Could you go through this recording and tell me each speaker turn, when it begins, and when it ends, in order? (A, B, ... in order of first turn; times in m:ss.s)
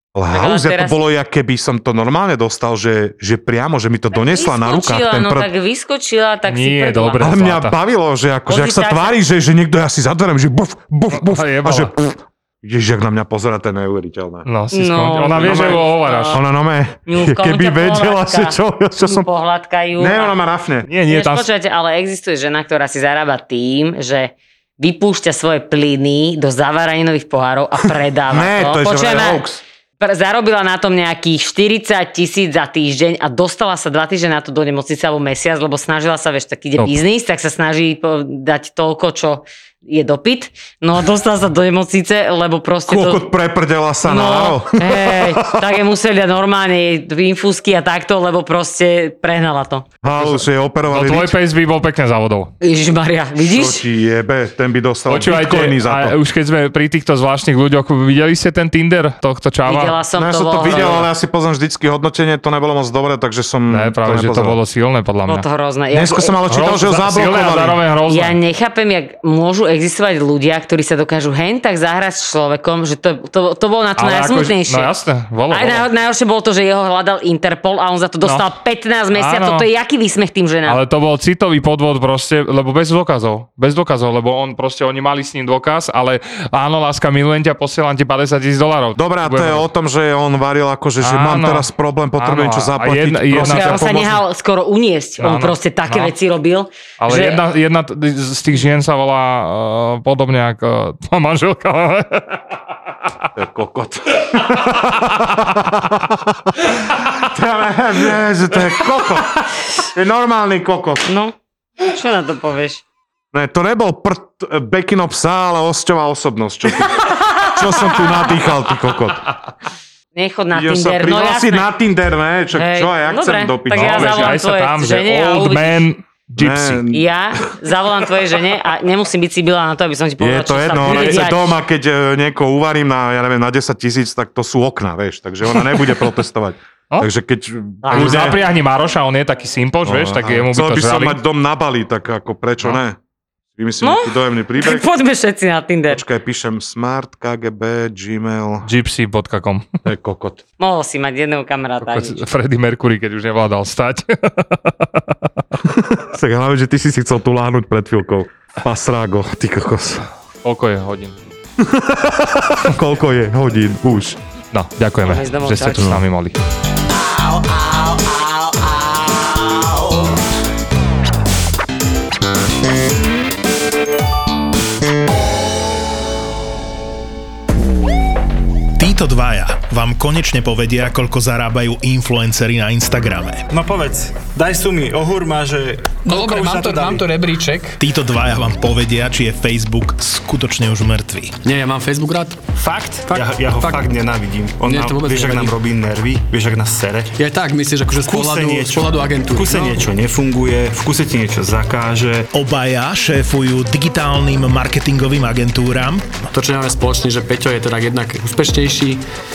0:00.1-0:05.5 A
0:00.3-0:01.0 B
0:04.1-0:07.3 B
0:06.5-0:07.8 C
0:07.2-0:14.5 A
0:08.5-0:09.2 B
0:11.1-0:11.9 C
0:14.5-0:16.4 C
0:14.7-0:16.4 B
0:15.4-0:19.3 A
0:17.1-0:20.3 B
0:20.0-0:20.9 A
0:20.9-0:21.5 C
0:21.1-0:29.4 B
0:28.3-0:29.6 A
0:30.0-0:43.2 B
0:42.9-0:45.6 A
0:44.0-0:49.9 B
0:50.0-0:51.4 A
0:50.1-0:52.5 C
0:52.6-0:53.8 B
0:53.4-0:56.2 A
0:55.1-1:00.0 C
0:59.7-1:01.1 B
1:00.2-1:04.6 A
1:00.7-1:01.0 C
1:03.7-1:05.4 C
1:05.3-1:06.4 B
1:05.9-1:07.8 A
1:06.5-1:08.4 C
1:08.1-1:14.9 B
1:14.0-1:15.9 C
1:15.5-1:20.8 B
1:19.1-1:19.7 C
1:20.7-1:29.7 C
1:29.0-1:34.2 A
1:31.0-1:33.9 C
1:33.4-1:37.4 B
1:35.2-1:36.1 C
1:37.0-1:42.4 C
1:43.4-1:51.1 A
1:51.1-1:52.8 B
1:53.3-1:59.2 A
1:57.1-1:57.6 B
2:00.2-2:01.7 B
2:00.5-2:04.4 A
2:02.6-2:05.8 B
2:03.7-2:06.8 C
2:06.4-2:07.0 A
2:06.9-2:11.4 B
2:10.2-2:18.4 A
2:10.8-2:11.3 C
2:17.8-2:18.4 B
2:17.9-2:21.2 C
2:19.8-2:23.0 A
2:23.6-2:24.9 A
2:23.8-2:26.0 B
2:25.9-2:28.7 A
2:28.6-2:29.7 C
2:29.8-2:30.4 A
2:30.6-2:32.2 B
2:31.8-2:35.2 C
2:35.6-2:40.1 A
2:40.4-2:41.2 C
2:41.6-2:44.2 A
2:44.5-2:46.4 C
2:45.0-2:46.0 B
2:45.7-2:46.0 A
2:46.9-2:50.1 B
2:58.8-3:03.5 D
3:03.5-3:07.1 E
3:06.0-3:07.8 F
3:07.8-3:11.3 D
3:11.5-3:12.4 F
3:12.5-3:17.2 E
3:13.1-3:13.7 F
3:14.7-3:15.5 F
3:17.2-3:19.8 F
3:18.0-3:22.3 E
3:22.3-3:26.2 D
3:27.6-3:29.0 F